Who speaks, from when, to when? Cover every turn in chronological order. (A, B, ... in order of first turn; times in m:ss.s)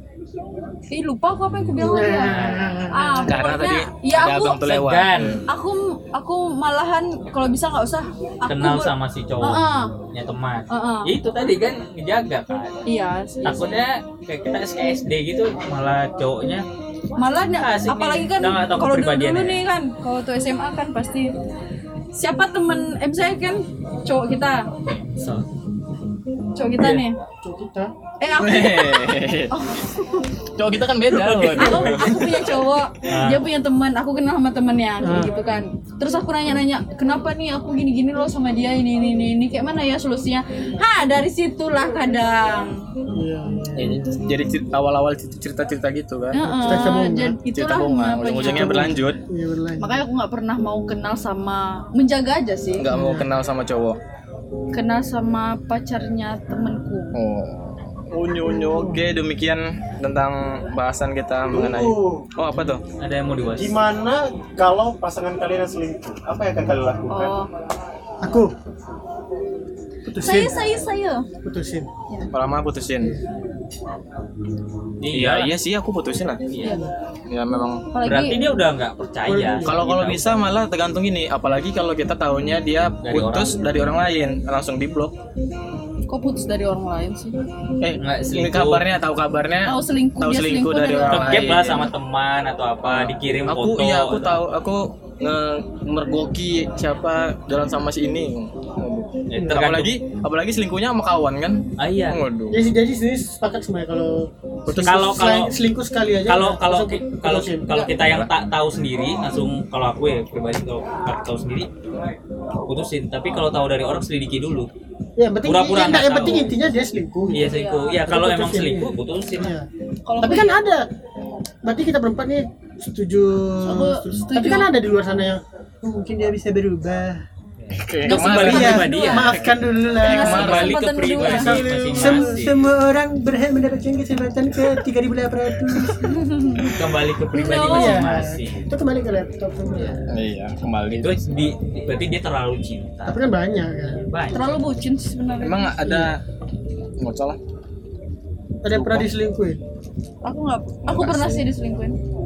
0:00.9-0:04.6 A
0:01.8-0:03.3 B
0:02.2-0:02.8 C
0:03.3-0:05.4 D
0:04.6-0:05.4 C
0:05.5-0:09.9 A
0:08.5-0:12.8 C
0:10.7-0:11.1 A
0:12.8-0:13.7 A
0:13.4-0:16.6 C
0:17.2-0:21.3 A
0:17.2-0:19.6 C
0:22.1-0:24.7 A
0:24.8-0:25.4 C
0:26.5-0:27.2 A
0:26.8-0:27.0 C
0:27.4-0:27.9 B
0:28.2-0:30.3 A
0:28.4-0:29.6 D
0:30.5-0:32.4 D
0:31.1-0:32.4 C
0:31.5-0:42.8 A
0:33.1-0:33.4 C
0:35.0-0:35.3 B
0:43.1-0:44.1 B
0:43.8-0:46.9 D
0:46.3-0:48.9 A
0:46.4-0:47.4 B
0:47.5-0:49.2 D
0:48.5-0:50.0 B
0:49.8-0:52.9 A
0:52.8-0:54.0 D
0:52.9-0:53.3 B
0:54.7-0:57.2 A
0:57.1-1:02.8 D
0:58.7-0:59.0 B
1:01.5-1:02.3 E
1:02.5-1:03.8 C
1:03.6-1:07.4 E
1:07.1-1:07.5 A
1:08.2-1:08.5 B
1:10.0-1:10.6 B
1:10.2-1:11.3 A
1:11.4-1:11.9 B
1:12.3-1:13.1 D
1:15.0-1:15.5 C
1:15.1-1:16.5 D
1:16.5-1:16.8 C
1:16.6-1:16.9 B
1:17.3-1:17.8 D
1:17.9-1:18.5 A
1:18.0-1:20.3 C
1:19.2-1:19.8 B
1:19.6-1:25.2 D
1:23.0-1:23.6 C
1:26.1-1:27.4 A
1:27.8-1:31.9 D
1:28.0-1:28.8 C
1:29.6-1:31.7 A
1:31.1-1:34.4 C
1:32.8-1:42.6 D
1:39.3-1:40.0 C
1:41.8-1:42.2 C
1:42.5-1:47.9 B
1:44.7-1:45.0 D
1:44.8-1:45.5 C
1:46.3-1:51.7 C
1:47.9-1:48.3 D
1:52.6-1:54.7 C
1:55.2-1:57.5 B
1:55.4-1:56.5 C
1:57.3-1:59.5 C
1:57.4-1:58.0 A
1:58.1-1:59.7 B
2:00.0-2:00.6 A
2:00.2-2:00.9 B
2:01.6-2:07.2 B
2:03.6-2:04.7 A
2:07.6-2:09.4 C
2:07.8-2:10.8 D
2:08.0-2:09.4 A
2:08.3-2:16.2 B
2:10.0-2:12.2 A
2:10.1-2:12.6 C
2:16.0-2:16.8 A
2:16.7-2:18.6 C
2:17.3-2:18.1 A
2:17.6-2:20.0 B
2:20.1-2:21.2 D
2:20.9-2:23.3 C
2:23.0-2:24.0 B
2:23.8-2:24.5 C
2:24.3-2:25.7 A
2:25.4-2:26.2 D
2:25.8-2:26.1 B
2:27.0-2:27.4 D
2:28.6-2:29.6 B
2:28.7-2:29.1 D
2:30.2-2:32.0 A
2:30.8-2:31.5 D